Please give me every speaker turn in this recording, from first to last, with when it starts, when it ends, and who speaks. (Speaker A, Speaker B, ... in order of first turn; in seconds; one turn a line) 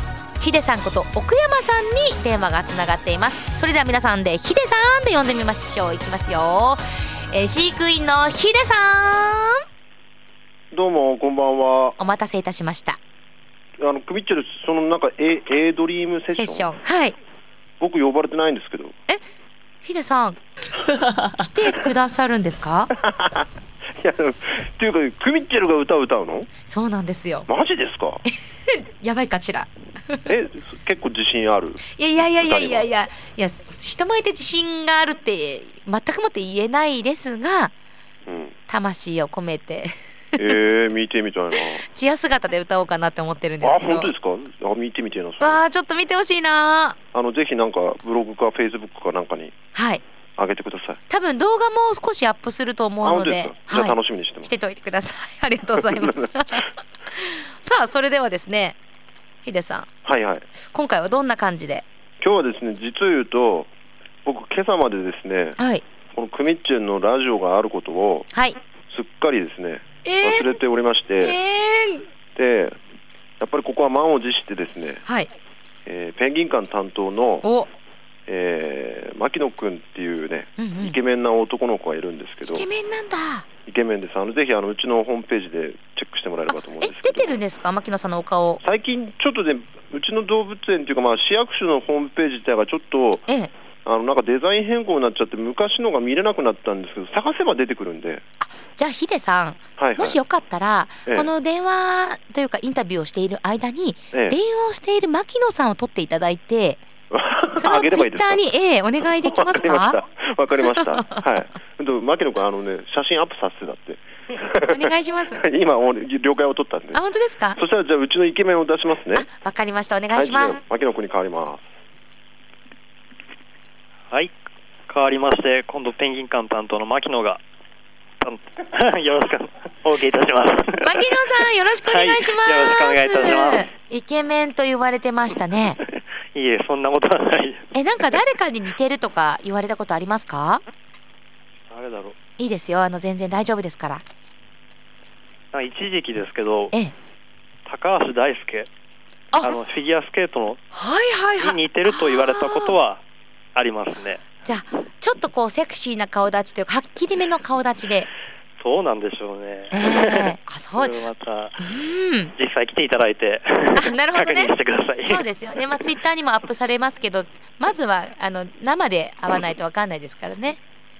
Speaker A: 0.4-9.6
Speaker B: 10.7-12.0
Speaker A: 12.0-13.0
Speaker B: 13.8-16.7
Speaker A: 16.3-17.1
Speaker B: 17.8-18.9
Speaker A: 19.8-20.4
Speaker A: 21.4-22.9
Speaker B: 22.9-23.4
Speaker B: 24.0-26.5
Speaker A: 26.7-27.5
Speaker B: 27.5-28.2
Speaker A: 28.6-30.3
Speaker B: 30.3-32.9
Speaker A: 31.9-37.7
Speaker B: 38.3-38.5
Speaker A: 38.7-40.6
Speaker B: 40.4-41.8
Speaker A: 41.6-44.1
Speaker B: 43.6-45.6
Speaker A: 45.4-47.0
Speaker B: 47.1-49.5
Speaker A: 49.7-50.0
Speaker B: 50.4-51.0
Speaker A: 51.1-58.8
Speaker B: 53.0-54.5
Speaker A: 59.4-59.9
Speaker B: 60.0-60.5
Speaker A: 60.6-61.8
Speaker B: 62.2-63.7
Speaker B: 64.2-65.6
Speaker A: 65.6-65.8
Speaker B: 66.1-68.3
Speaker B: 68.9-71.4
Speaker A: 70.0-70.5
Speaker A: 71.2-72.1
Speaker B: 72.3-72.7
Speaker B: 73.4-75.0
Speaker A: 75.0-75.3
Speaker B: 75.8-77.5
Speaker A: 77.4-77.7
Speaker B: 78.3-82.7
Speaker A: 80.6-81.0
Speaker A: 82.5-83.5
Speaker B: 83.7-87.4
Speaker A: 86.5-88.6
Speaker B: 88.6-93.2
Speaker A: 93.3-93.5
Speaker B: 93.8-98.2
Speaker A: 98.4-106.8
Speaker B: 99.8-100.2
Speaker B: 104.1-104.4
Speaker B: 107.1-108.4
Speaker A: 107.5-110.0
Speaker B: 109.2-117.0
Speaker A: 110.7-111.2
Speaker A: 114.7-115.4
Speaker A: 116.9-117.6
Speaker B: 117.6-119.3
Speaker A: 119.1-120.6
Speaker B: 120.1-121.6
Speaker C: 124.9-127.4
Speaker C: 128.2-133.7
Speaker A: 130.8-135.8
Speaker C: 135.8-137.7
Speaker A: 137.7-140.6
Speaker C: 141.7-142.2
Speaker A: 142.4-144.0
Speaker C: 145.5-146.7
Speaker C: 147.6-148.7
Speaker C: 149.4-150.6
Speaker A: 150.7-152.8
Speaker C: 151.4-153.0
Speaker C: 153.5-154.2
Speaker A: 154.4-158.1
Speaker C: 158.6-161.7
Speaker A: 159.7-160.9
Speaker A: 161.6-162.3
Speaker C: 162.3-165.8
Speaker A: 163.7-170.6